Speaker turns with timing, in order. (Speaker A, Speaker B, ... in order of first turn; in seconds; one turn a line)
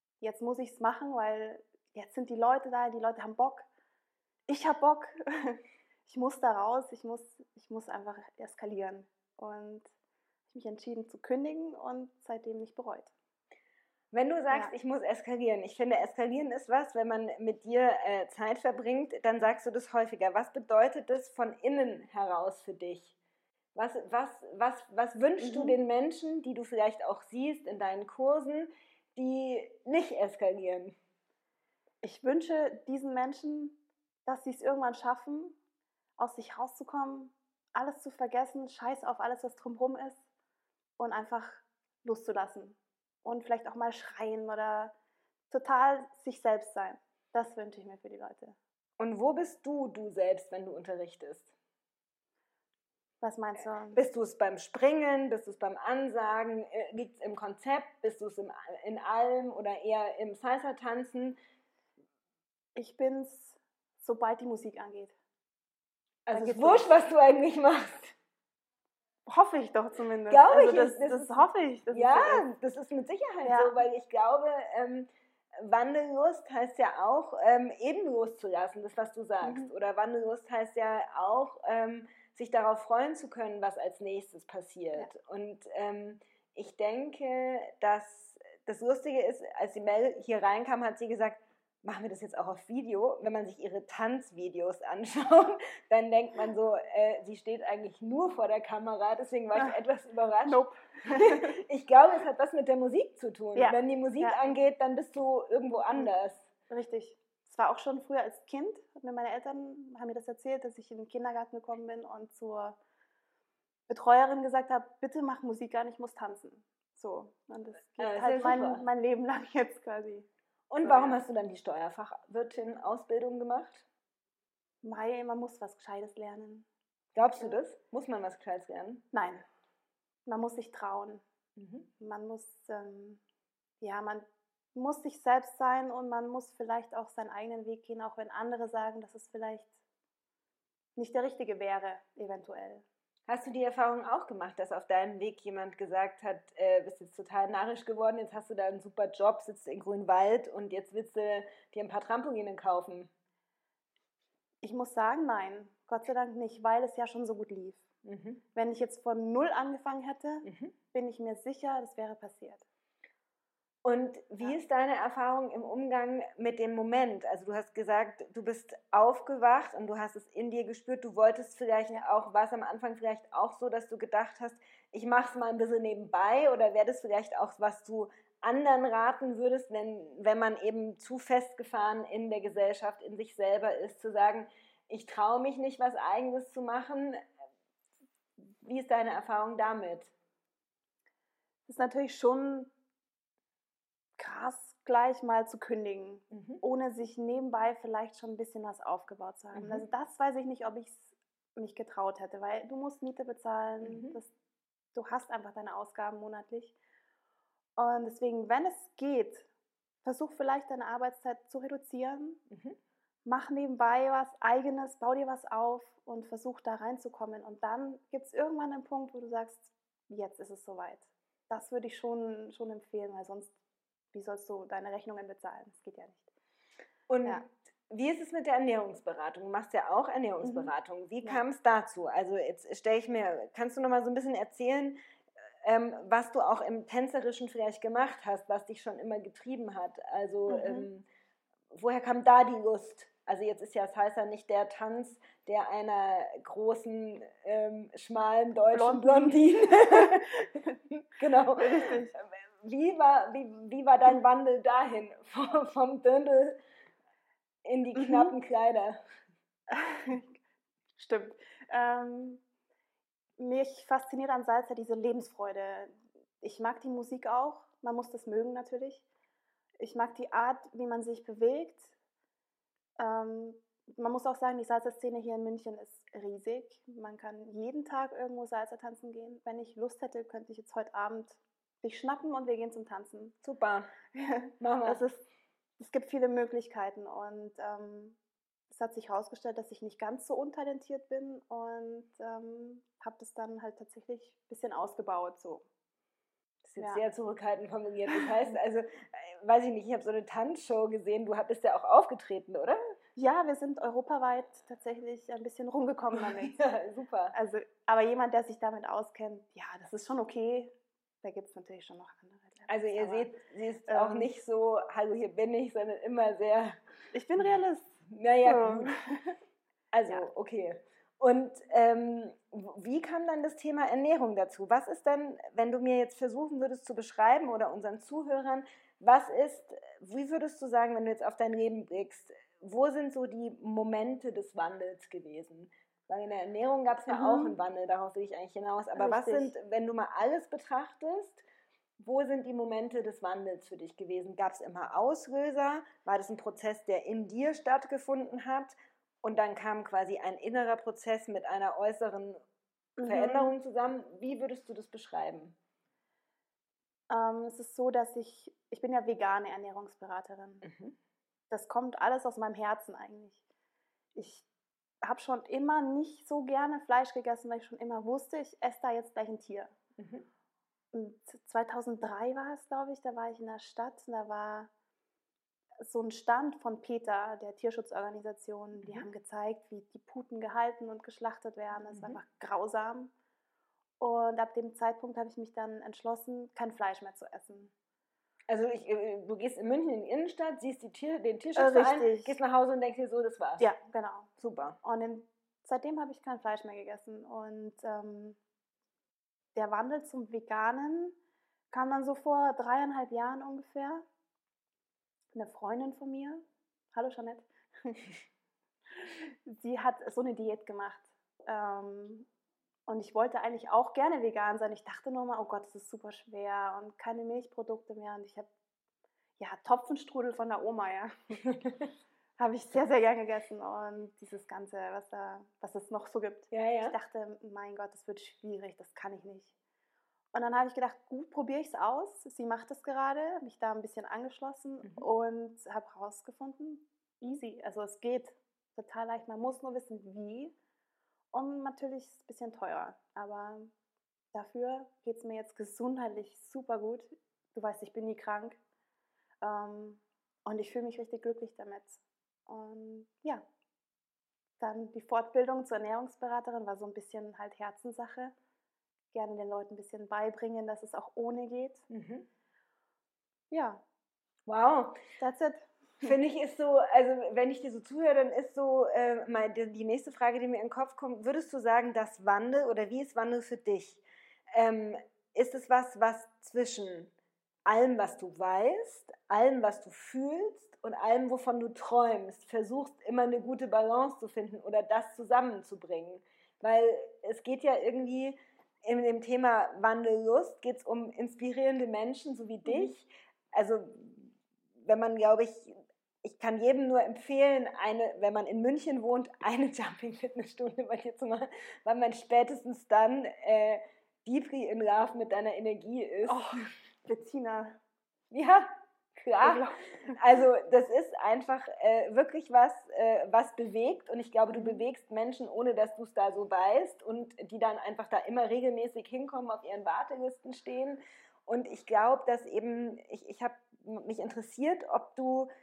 Speaker A: 0.2-3.7
Speaker A: 4.5-9.9
Speaker A: 10.5-13.1
Speaker B: 14.1-23.1
Speaker B: 23.7-30.9
Speaker A: 25.4-25.8
Speaker A: 32.0-35.5
Speaker A: 36.2-40.2
Speaker A: 41.0-44.9
Speaker A: 45.5-48.6
Speaker B: 49.0-51.5
Speaker A: 53.2-54.0
Speaker B: 53.9-61.4
Speaker A: 62.8-65.1
Speaker B: 66.3-68.2
Speaker A: 66.3-66.9
Speaker A: 69.2-72.5
Speaker B: 70.3-106.5
Speaker A: 73.4-73.8
Speaker A: 79.4-79.7
Speaker A: 100.4-101.5
Speaker A: 103.5-104.4
Speaker A: 106.7-112.8
Speaker A: 113.9-120.3
Speaker B: 118.0-118.8
Speaker B: 120.7-123.8
Speaker A: 120.8-121.2
Speaker A: 124.8-126.7
Speaker B: 127.1-129.0
Speaker A: 129.1-129.4
Speaker A: 130.2-131.2
Speaker B: 131.6-131.9
Speaker A: 132.0-133.2
Speaker A: 133.8-139.7
Speaker A: 140.9-142.8
Speaker B: 143.3-153.1
Speaker A: 154.6-157.8
Speaker B: 158.0-158.4
Speaker A: 158.5-162.6
Speaker B: 160.4-160.7
Speaker B: 163.8-187.3
Speaker B: 188.4-190.1
Speaker A: 191.7-192.7
Speaker A: 194.2-204.3
Speaker B: 196.3-196.6
Speaker B: 199.5-199.8
Speaker B: 203.8-204.2
Speaker A: 204.9-206.8
Speaker A: 207.8-209.5
Speaker A: 210.0-212.4
Speaker B: 212.5-212.8
Speaker A: 213.2-223.5
Speaker A: 224.1-226.3
Speaker B: 227.1-235.0
Speaker A: 230.4-230.7
Speaker B: 235.6-241.1
Speaker A: 240.5-240.9
Speaker B: 241.7-256.6
Speaker A: 248.7-250.8
Speaker A: 251.5-252.1
Speaker B: 257.6-259.0
Speaker A: 257.9-258.3
Speaker A: 259.7-260.3
Speaker A: 261.0-262.4
Speaker A: 263.4-269.0
Speaker A: 269.8-271.9
Speaker A: 273.0-283.3
Speaker B: 283.4-283.9
Speaker A: 284.1-285.2
Speaker B: 284.6-285.1
Speaker A: 285.8-288.2
Speaker A: 288.7-295.6
Speaker B: 296.6-302.8
Speaker A: 303.1-306.6
Speaker B: 306.1-307.3
Speaker A: 307.3-313.3
Speaker B: 312.7-316.8
Speaker A: 313.9-314.3
Speaker A: 317.1-319.4
Speaker B: 318.1-318.9
Speaker B: 319.9-341.4
Speaker A: 337.1-337.6
Speaker A: 338.9-339.5
Speaker B: 342.0-352.4
Speaker A: 353.0-353.5
Speaker B: 353.1-355.6
Speaker A: 357.1-360.6
Speaker B: 360.6-360.9
Speaker A: 361.5-363.4
Speaker A: 364.1-364.5
Speaker A: 365.0-369.7
Speaker B: 370.0-370.2
Speaker A: 370.9-374.7
Speaker A: 375.8-383.1
Speaker B: 381.9-382.2
Speaker A: 384.0-387.7
Speaker B: 388.5-393.6
Speaker A: 391.6-392.4
Speaker A: 393.6-394.3
Speaker B: 394.4-394.8
Speaker A: 394.8-398.4
Speaker A: 399.5-401.1
Speaker A: 401.7-404.0
Speaker A: 405.3-406.4
Speaker A: 406.9-408.1
Speaker A: 408.9-412.3
Speaker A: 412.9-418.5
Speaker A: 419.4-421.4
Speaker B: 421.5-421.8
Speaker A: 422.4-429.5
Speaker B: 426.5-426.9
Speaker A: 430.3-440.5
Speaker A: 441.3-443.7
Speaker A: 444.3-448.6
Speaker A: 449.4-453.4
Speaker A: 454.6-458.3
Speaker A: 459.1-461.9
Speaker B: 461.9-462.3
Speaker A: 463.5-463.8
Speaker B: 464.5-464.9
Speaker A: 465.2-466.1
Speaker B: 466.0-474.0
Speaker B: 474.5-477.1
Speaker B: 477.6-506.6
Speaker A: 492.6-492.9
Speaker A: 506.3-507.8
Speaker B: 508.3-525.5
Speaker A: 509.4-510.2
Speaker A: 514.5-514.8